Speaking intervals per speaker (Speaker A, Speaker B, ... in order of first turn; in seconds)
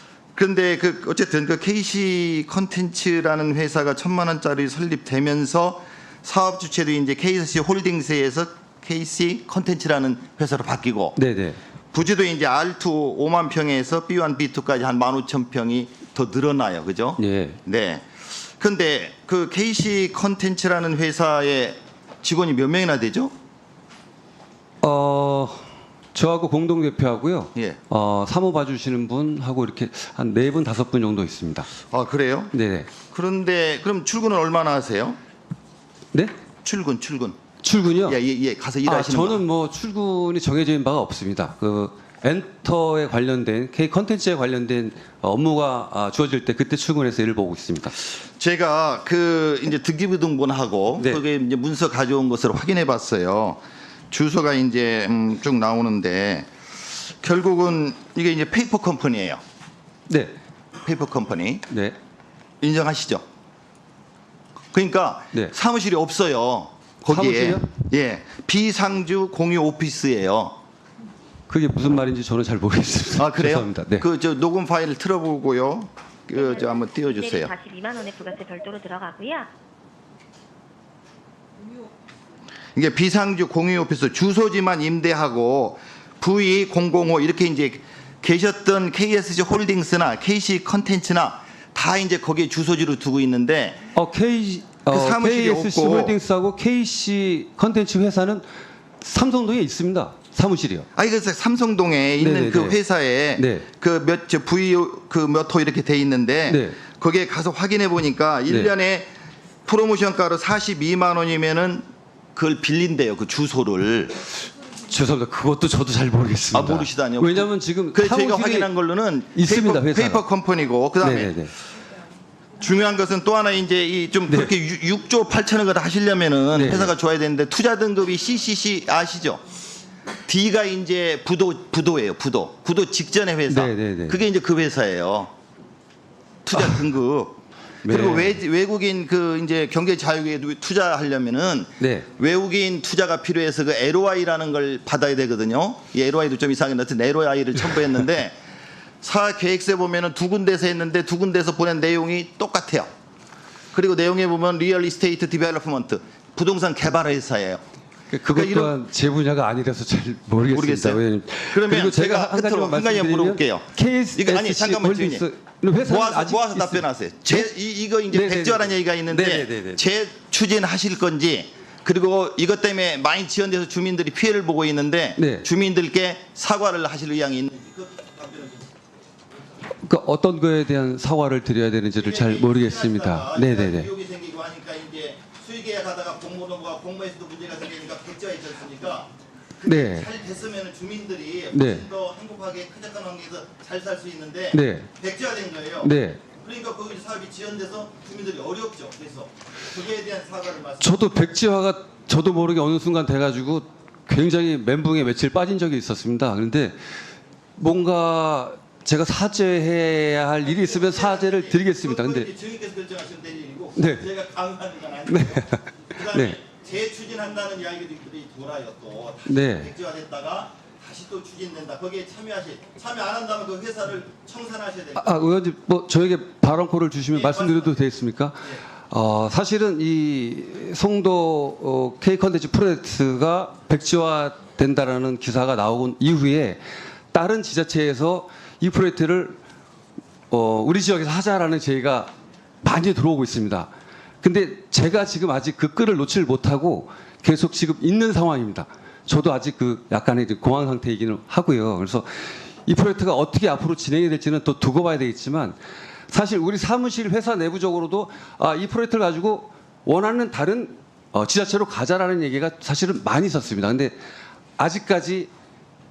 Speaker A: 0.3-11.2, 11.9-23.3, 31.9-32.5, 33.1-35.2, 36.6-37.4, 38.0-39.4, 48.2-56.5, 57.1-59.4, 60.8-61.7, 62.6-63.2, 64.7-70.6, 73.2-77.5, 82.8-93.8, 94.9-96.2, 101.0-109.1, 109.7-114.2, 116.5-121.4, 122.6-129.4, 130.3-135.3, 136.4-148.4, 149.0-152.9, 153.7-157.6, 158.3-158.7, 160.5-165.2, 165.8-178.7, 182.0-201.3, 210.4-225.3, 227.1-227.8
Speaker B: 11.2-11.6, 17.2-17.6, 24.8-31.7, 32.5-32.9, 37.6-38.2, 38.8-48.0, 51.0-51.2, 60.1-60.3, 61.7-62.0, 67.0-67.7, 71.5-74.1, 93.9-98.5, 99.0-100.9, 102.2-102.8, 103.4-103.7, 106.5-106.8, 114.9-118.7, 119.3-120.2, 121.0-121.5, 126.5-126.9, 133.5-134.2, 137.8-138.4, 141.8-142.1, 158.1-167.5, 168.1-169.8, 175.2-175.5, 179.8-183.9, 189.7-190.1, 191.5-191.9, 194.5-194.9, 195.8-196.2, 200.8-206.9, 207.6-212.3, 213.8-214.1, 215.1-216.4, 219.3-219.7, 225.0-236.6, 237.1-239.4, 240.3-242.1, 242.6-243.7, 244.2-255.6, 256.1-263.9, 264.6-265.3
Speaker C: 77.1-79.5